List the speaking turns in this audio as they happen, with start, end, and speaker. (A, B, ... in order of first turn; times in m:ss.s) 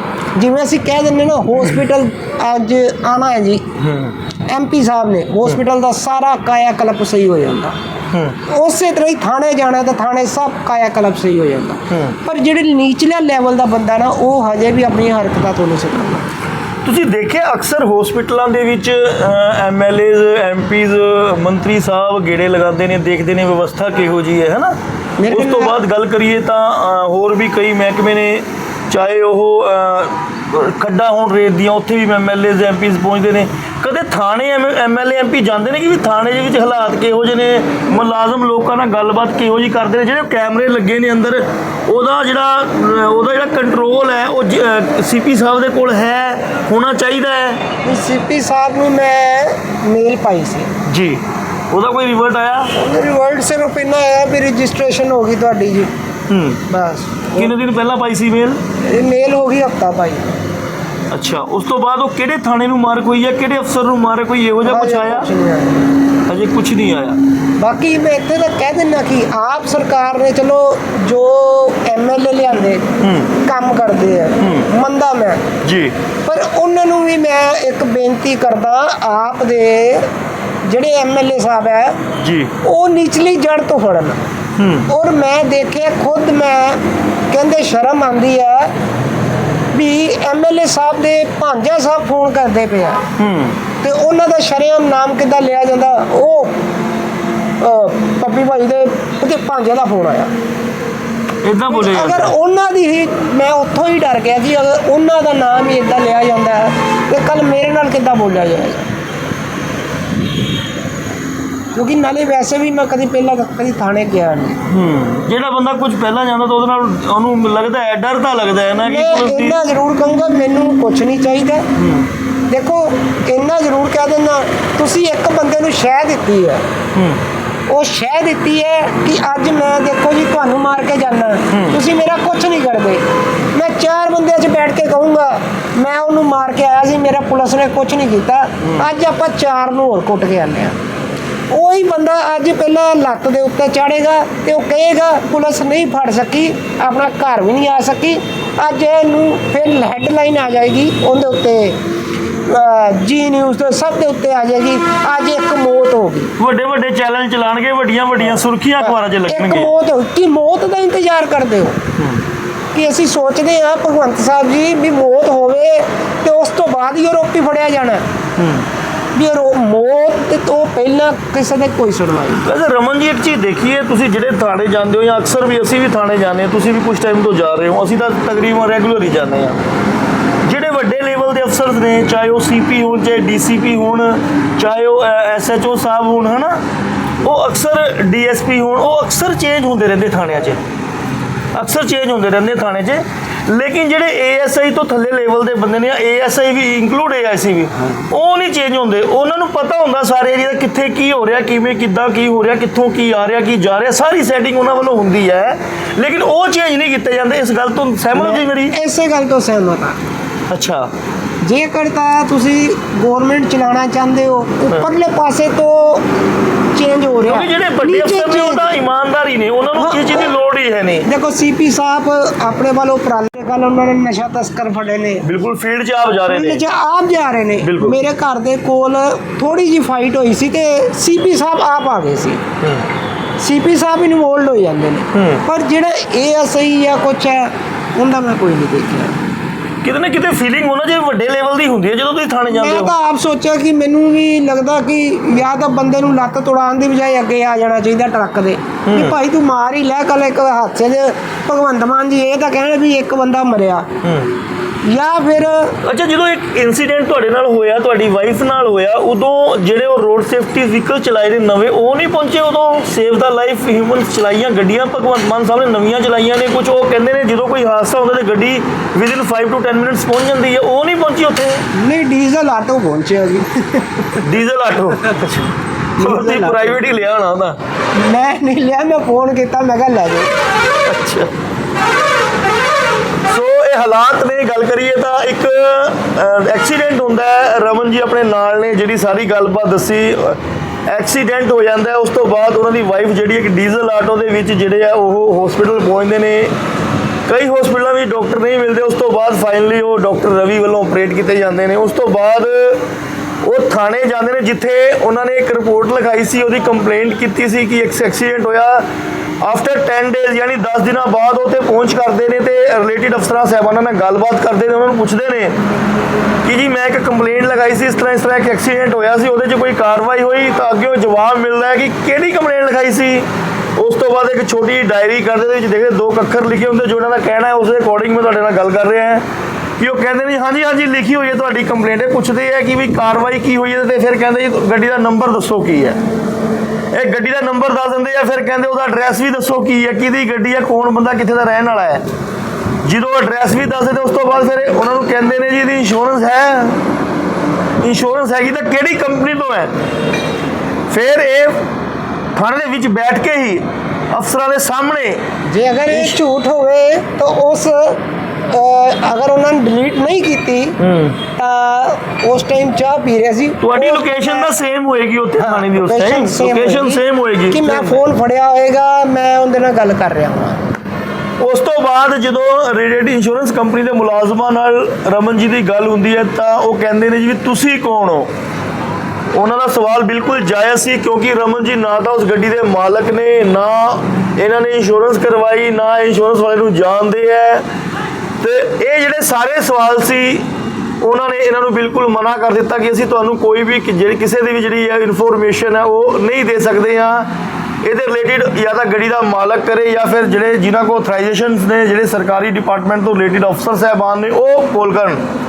0:00.3-0:03.6 A
0:03.8-0:04.2 B
0:04.5-0:07.8 A
0:08.1-0:08.4 B
0:08.5-0:16.3 A
0:11.9-0:12.2 B
0:16.8-0:24.8 B
0:25.2-0:25.8 A
0:25.3-0:47.6 B
0:47.8-0:50.7 A
0:50.8-0:52.7 B
0:52.7-0:55.9 A
0:56.3-0:56.6 B
0:56.7-0:57.5 A
0:57.3-0:58.6 B
0:58.8-1:00.4 A
1:01.1-1:05.3 B
1:04.6-1:05.8 A
1:06.3-1:07.2 B
1:07.6-1:15.4 A
1:13.0-1:13.4 B
1:14.4-1:14.7 B
1:15.6-1:15.9 B
1:16.2-1:20.1 A
1:20.6-1:22.0 A
1:22.2-1:22.5 B
1:22.6-1:24.2 A
1:24.6-1:24.9 B
1:24.9-1:28.7 A
1:29.7-1:33.0 A
1:33.2-1:33.6 B
1:33.8-1:36.6 A
1:37.6-1:40.3 A
1:41.4-1:42.3 B
1:41.7-1:48.9 A
1:51.7-1:54.6 A
1:54.7-1:59.6 B
1:58.8-2:01.7 A
2:01.7-2:02.1 B
2:02.5-2:06.6 A
2:06.9-2:07.2 B
2:07.7-2:20.8 A
2:11.5-2:11.8 B
2:18.6-2:18.9 B
2:21.5-2:31.8 A
2:32.4-2:36.3 A
2:36.4-2:39.7 B
2:38.8-2:41.8 A
2:42.0-2:42.2 B
2:42.7-2:48.0 A
2:48.4-2:48.6 B
2:49.1-2:52.5 A
2:52.4-2:59.6 B
3:00.4-3:06.6 B
3:07.2-3:10.6 B
3:11.5-3:28.8 B
3:28.1-3:30.0 A
3:30.5-3:30.9 B
3:31.4-3:36.1 A
3:36.7-3:38.7 A
3:37.2-3:41.1 B
3:39.7-3:40.2 A
3:41.0-3:45.2 A
3:45.2-3:46.6 B
3:46.2-3:52.4 A
3:47.6-3:48.0 B
3:53.4-3:59.2 A
3:55.1-3:55.4 B
3:59.8-4:02.9 B
4:02.5-4:13.9 A
4:08.8-4:09.2 B
4:14.0-4:14.3 B
4:14.8-4:15.8 A
4:15.8-4:31.7 B
4:31.7-4:34.2 A
4:34.2-4:35.5 B
4:35.1-4:35.3 A
4:36.0-4:36.8 A
4:36.0-4:37.6 B
4:37.9-4:40.3 A
4:40.8-4:41.3 B
4:43.2-4:56.5 B
4:57.3-5:02.8 B
5:03.4-5:08.8 B
5:09.4-5:15.6 B
5:16.4-5:29.2 B
5:29.8-5:36.0 B
5:36.9-5:42.0 B
5:42.8-5:46.8 B
5:47.8-5:49.7 B
5:50.9-5:51.7 B
5:52.3-5:55.2 B
5:55.4-6:00.8 A
5:55.9-5:56.2 B
6:00.8-6:01.2 B
6:01.4-6:04.5 A
6:03.6-6:08.0 B
6:05.4-6:10.6 A
6:11.4-6:18.3 B
6:19.3-6:27.6 B
6:28.4-6:30.4 B
6:31.0-6:37.3 B
6:37.8-6:45.2 B